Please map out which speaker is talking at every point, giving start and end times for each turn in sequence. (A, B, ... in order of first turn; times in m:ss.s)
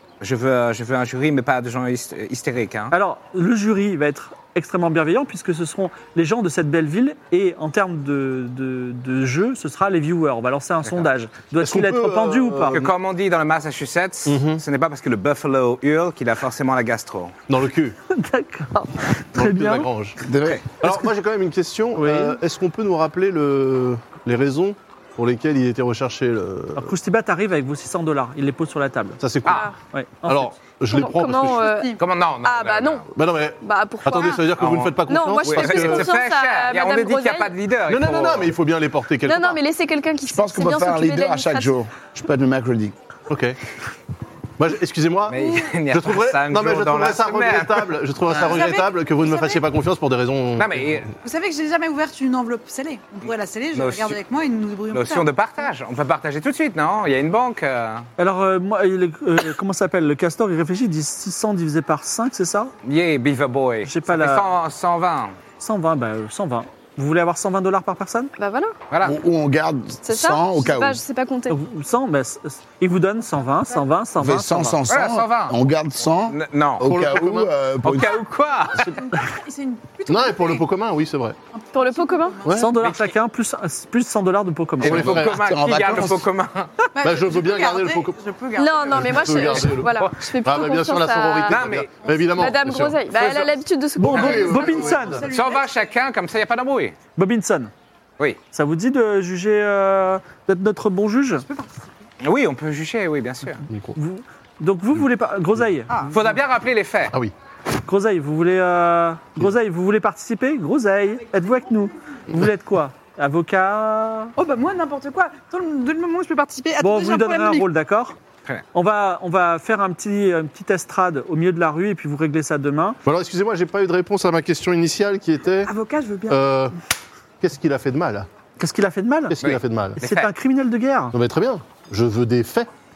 0:00.2-0:02.9 A
0:02.9-0:12.8 B
0:11.6-0:12.9 C
0:12.7-0:17.3 A
0:14.2-0:14.6 C
0:17.5-0:18.0 C
0:18.1-0:19.9 B
0:19.3-0:20.2 C
0:20.2-0:20.7 D
0:20.8-0:26.9 C
0:22.0-0:22.4 B
0:26.8-0:29.2 B
0:29.2-0:29.7 C
0:29.4-0:29.7 A
0:29.9-0:30.5 B
0:30.2-0:31.6 C
0:30.9-0:33.1 E
0:31.6-0:32.0 F
0:32.0-0:33.1 A
0:33.1-0:36.1 C
0:33.6-0:37.5 E
0:34.6-0:38.5 A
0:37.9-0:39.6 C
0:39.2-0:41.7 E
0:40.2-0:42.9 D
0:43.3-0:43.6 C
0:44.6-0:51.0 C
0:45.3-0:47.9 A
0:48.3-0:49.6 F
0:50.6-0:51.1 A
0:51.2-0:55.3 F
0:53.7-0:54.2 A
0:54.9-0:58.1 A
0:58.2-1:02.7 B
1:02.8-1:05.3 A
1:03.8-1:04.5 B
1:05.6-1:08.3 B
1:08.4-1:08.8 E
1:08.9-1:09.2 A
1:09.0-1:11.0 D
1:10.0-1:11.6 E
1:11.5-1:14.8 B
1:14.2-1:18.2 D
1:14.9-1:15.6 A
1:16.3-1:16.9 A
1:16.8-1:17.5 C
1:17.8-1:19.0 A
1:18.6-1:20.6 F
1:20.1-1:21.4 C
1:21.5-1:22.6 F
1:21.7-1:22.4 E
1:22.4-1:22.7 C
1:22.5-1:25.0 B
1:22.8-1:23.1 A
1:24.8-1:26.2 D
1:24.8-1:25.4 C
1:24.8-1:26.7 A
1:26.9-1:29.4 F
1:27.0-1:28.2 C
1:28.6-1:31.6 E
1:28.9-1:35.1 C
1:31.5-1:31.9 A
1:32.2-1:34.9 E
1:34.0-1:35.2 B
1:34.2-1:35.7 F
1:35.2-1:36.9 A
1:37.2-1:37.7 B
1:38.5-1:41.4 B
1:41.5-1:41.8 F
1:42.2-1:43.6 A
1:43.7-1:43.9 C
1:43.9-1:46.0 B
1:46.1-1:47.1 A
1:47.8-1:54.3 B
1:54.4-1:57.7 F
1:56.8-1:58.2 B
1:58.7-2:03.0 B
2:03.0-2:05.7 C
2:05.6-2:06.5 F
2:06.3-2:06.7 C
2:07.4-2:08.3 C
2:08.6-2:09.4 B
2:09.3-2:10.0 C
2:09.4-2:10.3 A
2:10.0-2:11.1 B
2:11.1-2:12.7 C